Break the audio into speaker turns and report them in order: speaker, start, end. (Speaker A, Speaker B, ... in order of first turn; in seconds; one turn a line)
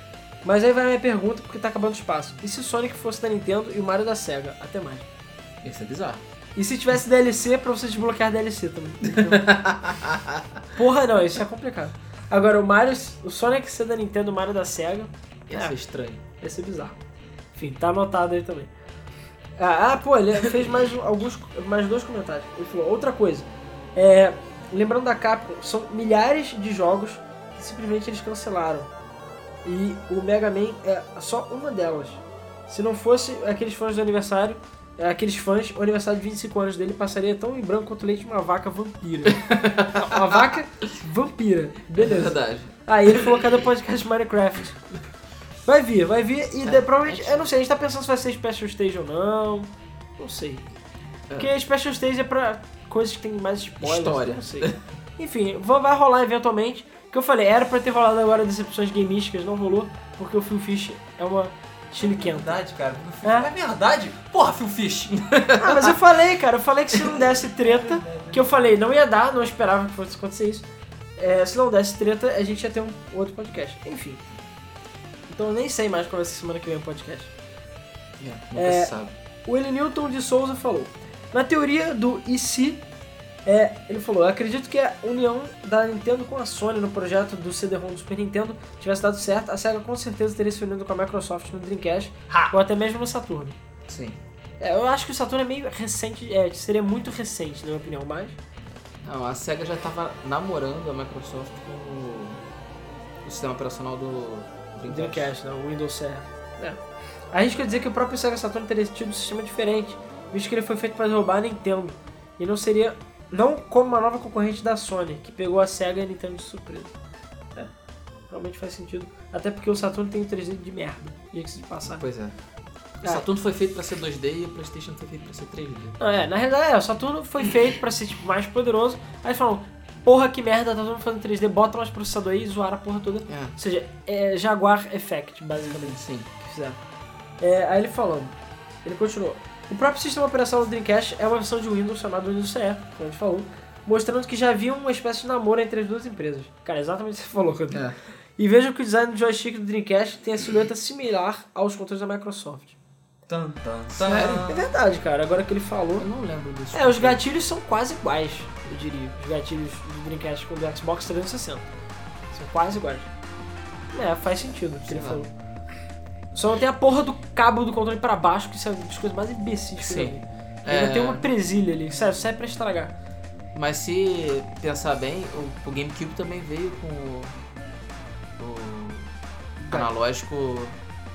Speaker A: 0.4-5.1
Speaker B: 5.6-6.2
Speaker A: 6.6-9.6
Speaker B: 9.1-10.4
Speaker A: 10.7-15.8
Speaker B: 15.5-16.2
Speaker A: 16.4-17.0
Speaker A: 17.6-18.7
Speaker A: 19.6-28.9
Speaker A: 29.6-44.8
Speaker B: 39.3-40.5
Speaker B: 42.0-43.5
Speaker A: 45.7-50.7
Speaker B: 46.6-47.5
Speaker A: 51.4-62.6
Speaker B: 53.8-54.8
Speaker C: 62.0-65.5
Speaker A: 63.2-63.5
Speaker A: 65.6-70.7
Speaker C: 67.7-68.5
Speaker A: 71.2-74.2
Speaker A: 75.3-77.3
Speaker B: 78.2-79.1
Speaker A: 78.5-82.8
Speaker A: 83.5-93.6
Speaker B: 93.9-94.2
Speaker A: 94.6-98.4
Speaker B: 99.0-102.4
Speaker B: 103.2-105.3
Speaker A: 104.9-106.8
Speaker A: 107.3-116.9
Speaker A: 118.3-122.0
Speaker B: 121.9-122.3
Speaker B: 123.0-126.0
Speaker A: 126.0-136.8
Speaker B: 133.3-133.6
Speaker B: 135.7-136.3
Speaker A: 137.4-138.3
Speaker A: 138.8-147.8
Speaker B: 147.7-148.0
Speaker A: 148.4-152.8
Speaker C: 153.3-154.6
Speaker B: 153.9-154.5
Speaker A: 154.5-156.1
Speaker B: 156.0-157.2
Speaker A: 156.7-161.7
Speaker A: 162.3-163.1
Speaker A: 163.9-165.3
Speaker B: 164.9-165.2
Speaker A: 166.3-172.9
Speaker B: 169.8-171.3
Speaker B: 173.5-177.4
Speaker B: 178.4-179.1
Speaker A: 179.6-179.9
Speaker B: 179.7-180.8